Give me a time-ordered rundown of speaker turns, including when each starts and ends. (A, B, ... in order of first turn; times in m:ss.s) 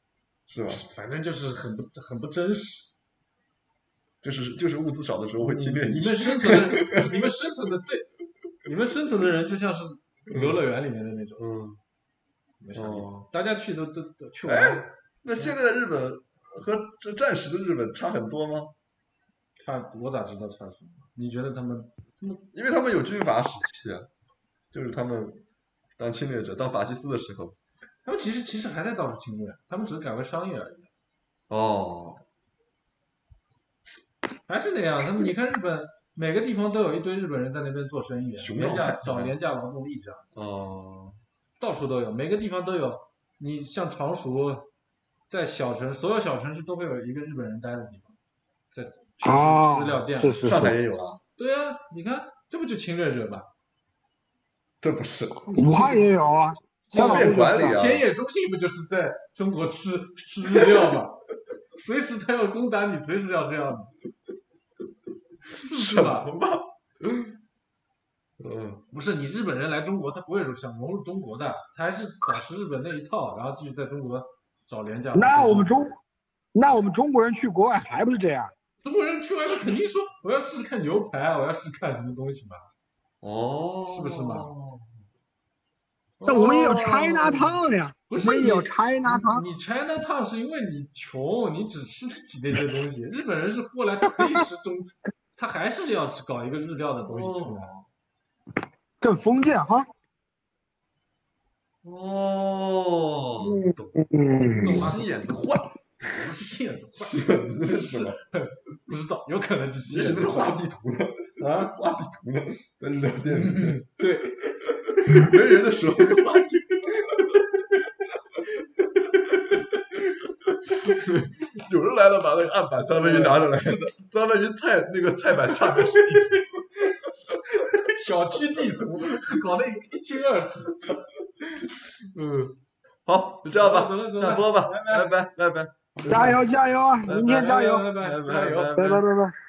0:00.5-0:00.8 A
0:00.6-0:02.9 B
0:04.2-0:07.1 A
0:05.4-0:08.1 B
0:08.6-0:11.4 B
0:10.3-0:10.6 A
0:11.4-0:11.8 A
0:12.6-0:14.8 B
0:12.8-0:13.3 A
0:14.4-0:18.7 A
0:19.6-0:22.4 B
0:22.5-0:24.1 A
0:24.7-0:25.4 A
0:26.0-0:27.6 A
0:28.0-0:30.9 B
0:31.5-0:32.2 A
0:34.5-0:40.3 B
0:38.4-0:39.4 A
0:40.4-0:41.2 A
0:41.6-0:44.7 B
0:45.3-0:48.2 B
0:48.7-0:50.4 B
0:49.2-0:50.8 C
0:50.4-0:51.2 A
0:51.4-0:53.5 B
0:54.8-0:55.5 A
0:55.5-0:56.1 B
0:55.6-0:57.8 C
0:56.9-1:01.2 B
0:56.9-0:58.1 A
1:01.7-1:03.9 B
1:05.5-1:06.3 B
1:05.7-1:07.3 A
1:08.4-1:08.8 A
1:08.9-1:15.7 B
1:15.2-1:16.0 C
1:16.5-1:18.5 C
1:18.8-1:22.6 B
1:23.2-1:24.9 A
1:23.9-1:24.5 B
1:26.2-1:27.6 A
1:26.3-1:29.4 C
1:28.1-1:37.7 B
1:37.1-1:37.8 A
1:39.0-1:39.9 C
1:41.8-1:43.9 A
1:43.4-1:44.9 C
1:44.6-1:45.8 A
1:44.6-1:45.1 B
1:46.1-1:50.6 B
1:47.0-1:48.2 A
1:49.9-1:53.8 A
1:51.4-1:51.7 B
1:53.3-1:54.4 B
1:54.4-1:57.4 A
1:55.0-1:55.4 B
1:57.4-1:57.8 B
1:58.8-1:59.9 B
2:00.5-2:07.0 A
2:02.9-2:03.9 B
2:05.6-2:11.6 B
2:12.1-2:16.4 A
2:13.6-2:15.2 B
2:16.1-2:17.9 C
2:17.1-2:19.0 A
2:17.2-2:19.0 B
2:18.8-2:19.4 C